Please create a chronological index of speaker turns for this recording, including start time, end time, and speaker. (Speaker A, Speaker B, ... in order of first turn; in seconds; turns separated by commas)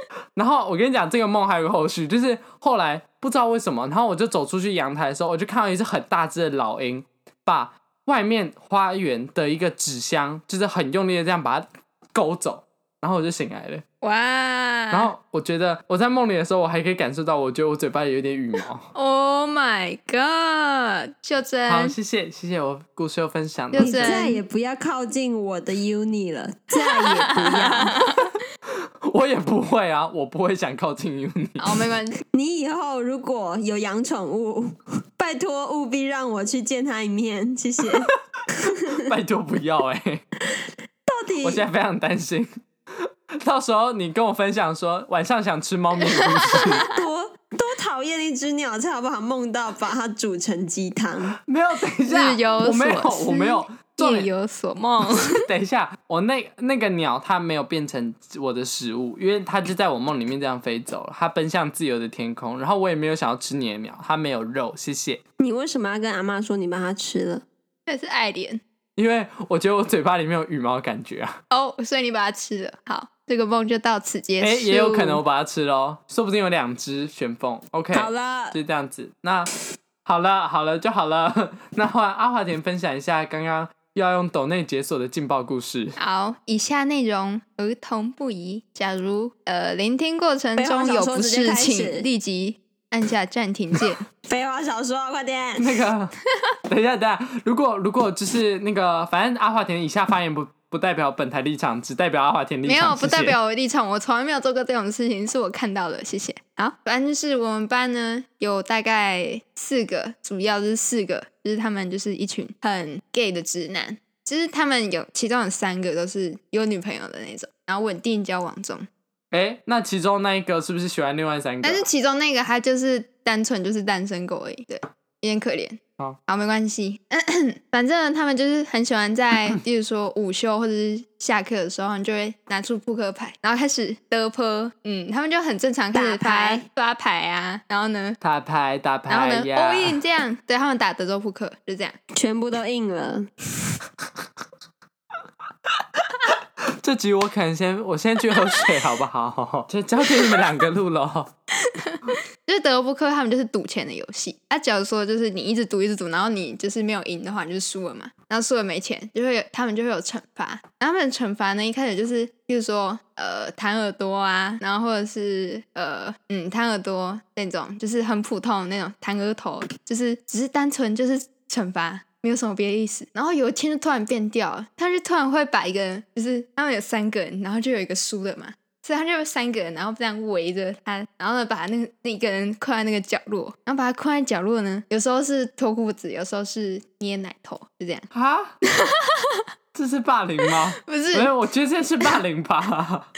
Speaker A: 0.3-13.8, Speaker B: 14.0-15.1, Speaker A: 14.9-18.9, Speaker B: 18.9-22.0, Speaker A: 21.7-24.3, Speaker B: 23.7-24.4, Speaker C: 23.8-27.9, Speaker B: 27.2-28.4, Speaker A: 29.0-31.6, Speaker B: 31.6-32.2, Speaker C: 32.3-38.9, Speaker A: 39.0-40.2, Speaker C: 41.1-41.7, Speaker A: 41.4-42.5, Speaker A: 43.4-46.9, Speaker B: 46.5-46.8, Speaker C: 46.8-51.4, Speaker A: 51.4-54.3, Speaker B: 52.1-55.4, Speaker A: 55.3-65.2, Speaker C: 65.4-67.4, Speaker B: 67.8-68.6, Speaker A: 69.0-71.4, Speaker B: 71.5-75.2, Speaker A: 74.4-79.5, Speaker C: 77.9-78.6, Speaker A: 80.0-86.0, Speaker B: 86.0-94.0, Speaker C: 90.5-92.1, Speaker C: 94.3-95.7, Speaker A: 95.6-96.2, Speaker A: 96.7-103.3, Speaker B: 102.6-118.9, Speaker A: 119.3-121.8, Speaker B: 121.6-138.2, Speaker C: 135.9-136.7, Speaker A: 138.2-140.0, Speaker B: 139.1-141.9, Speaker C: 142.2-143.3, Speaker A: 146.3-151.3, Speaker B: 151.8-188.1, Speaker A: 188.1-188.6, Speaker B: 188.7-189.4, Speaker A: 189.7-193.1, Speaker B: 190.8-191.3